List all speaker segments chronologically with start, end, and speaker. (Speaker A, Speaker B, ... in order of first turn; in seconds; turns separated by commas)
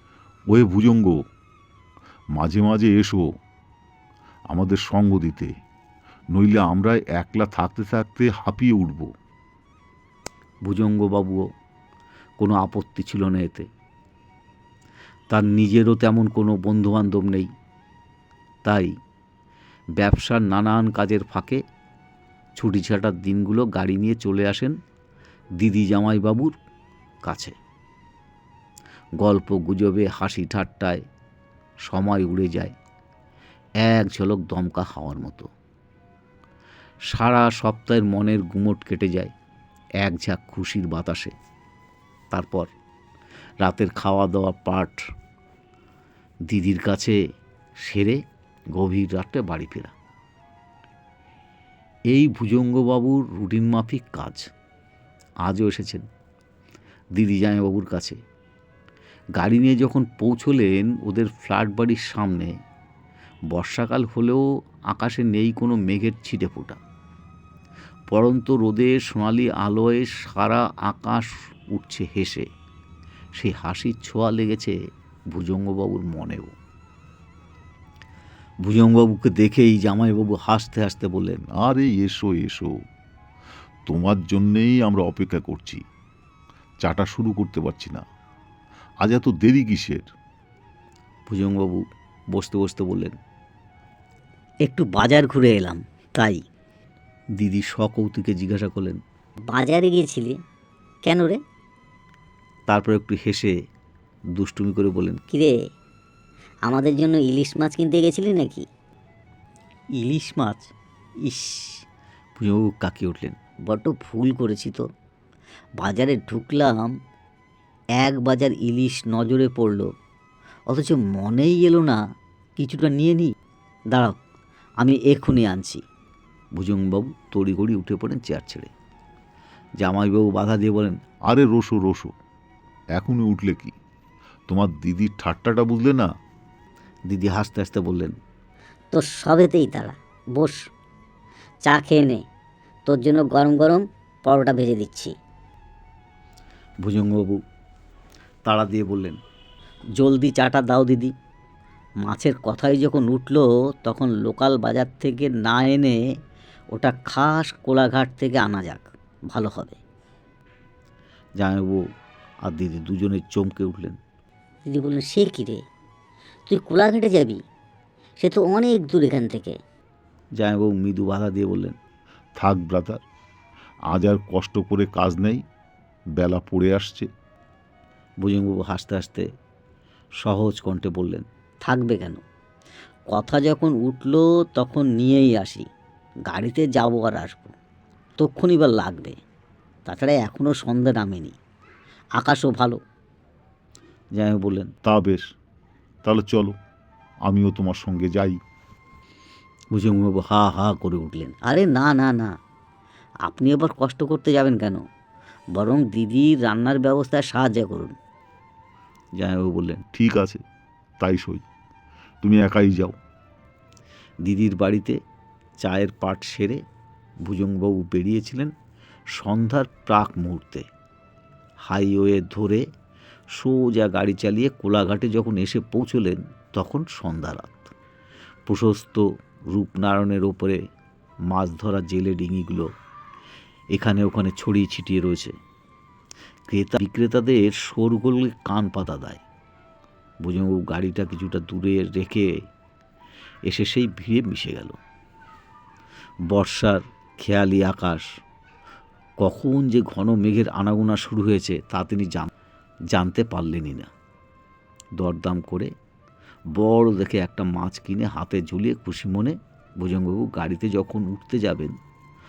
Speaker A: 0.5-1.2, Speaker A: 2.4-3.3, Speaker A: 4.5-5.5, Speaker A: 6.3-9.1, Speaker B: 10.7-11.5, Speaker B: 12.4-13.7, Speaker B: 15.3-17.5, Speaker B: 18.6-18.9, Speaker B: 20.0-21.6, Speaker B: 22.6-24.8, Speaker B: 25.6-26.6, Speaker B: 27.2-27.6, Speaker B: 29.2-31.0, Speaker B: 31.9-32.8, Speaker B: 33.8-35.5, Speaker B: 37.1-39.3, Speaker B: 40.0-41.3, Speaker B: 42.3-42.7, Speaker B: 43.6-45.0, Speaker B: 46.5-47.2, Speaker B: 47.8-48.2, Speaker B: 48.8-49.9, Speaker B: 52.1-54.4, Speaker B: 55.4-56.0, Speaker B: 57.2-58.2, Speaker B: 59.4-62.5, Speaker B: 63.5-66.8, Speaker B: 68.1-72.5, Speaker B: 73.4-74.8, Speaker B: 75.3-76.5, Speaker B: 78.6-81.5, Speaker A: 81.5-82.8, Speaker A: 83.9-85.8, Speaker A: 86.8-88.0, Speaker A: 89.0-90.1, Speaker B: 91.3-93.2, Speaker C: 94.7-96.4, Speaker B: 97.4-99.0, Speaker C: 99.5-100.4, Speaker C: 101.0-101.4, Speaker B: 102.7-103.5, Speaker B: 104.4-105.2, Speaker C: 105.3-105.6, Speaker C: 106.7-108.7, Speaker C: 110.0-110.6, Speaker C: 111.3-111.7, Speaker B: 112.4-113.4, Speaker C: 113.7-114.8, Speaker C: 115.8-116.9, Speaker C: 118.0-119.9, Speaker C: 120.7-122.0, Speaker C: 122.6-123.3, Speaker C: 124.8-125.8, Speaker B: 126.5-128.7, Speaker B: 129.8-131.0, Speaker A: 131.3-132.1, Speaker A: 133.0-133.8, Speaker A: 134.5-136.1, Speaker B: 137.1-138.2, Speaker C: 138.9-140.7, Speaker C: 141.6-142.2, Speaker C: 142.9-145.2, Speaker B: 146.8-147.4, Speaker B: 148.5-149.2, Speaker C: 150.0-151.1, Speaker C: 152.0-156.0, Speaker C: 156.7-159.8, Speaker B: 161.4-161.8, Speaker B: 162.4-164.0, Speaker C: 164.7-165.6, Speaker C: 166.5-167.4, Speaker C: 168.2-169.6, Speaker B: 170.4-171.8, Speaker A: 172.4-173.0, Speaker A: 173.9-175.4, Speaker A: 176.2-177.1, Speaker B: 178.2-179.3, Speaker B: 180.2-181.3, Speaker C: 181.6-182.2, Speaker C: 183.1-185.7, Speaker C: 186.3-187.5, Speaker C: 188.2-189.2, Speaker C: 189.9-191.4, Speaker C: 192.2-192.8, Speaker B: 194.2-194.7, Speaker A: 194.8-195.3, Speaker A: 196.0-196.6, Speaker A: 197.2-198.4, Speaker B: 199.7-201.4, Speaker C: 201.4-202.3, Speaker C: 203.2-204.8, Speaker C: 205.5-207.9, Speaker B: 209.2-209.9, Speaker A: 209.9-210.4, Speaker A: 211.0-211.4, Speaker A: 212.2-212.9, Speaker B: 214.2-215.0, Speaker B: 215.6-216.6, Speaker B: 217.2-218.5, Speaker B: 219.1-220.7, Speaker B: 221.7-222.7, Speaker B: 223.3-227.7, Speaker B: 228.5-230.6, Speaker B: 231.3-232.7, Speaker B: 233.7-235.3, Speaker B: 236.5-239.2, Speaker B: 240.2-242.3, Speaker B: 243.5-244.8, Speaker B: 246.3-248.1, Speaker B: 249.2-252.3, Speaker B: 252.9-253.9, Speaker B: 255.0-255.7, Speaker B: 256.6-261.8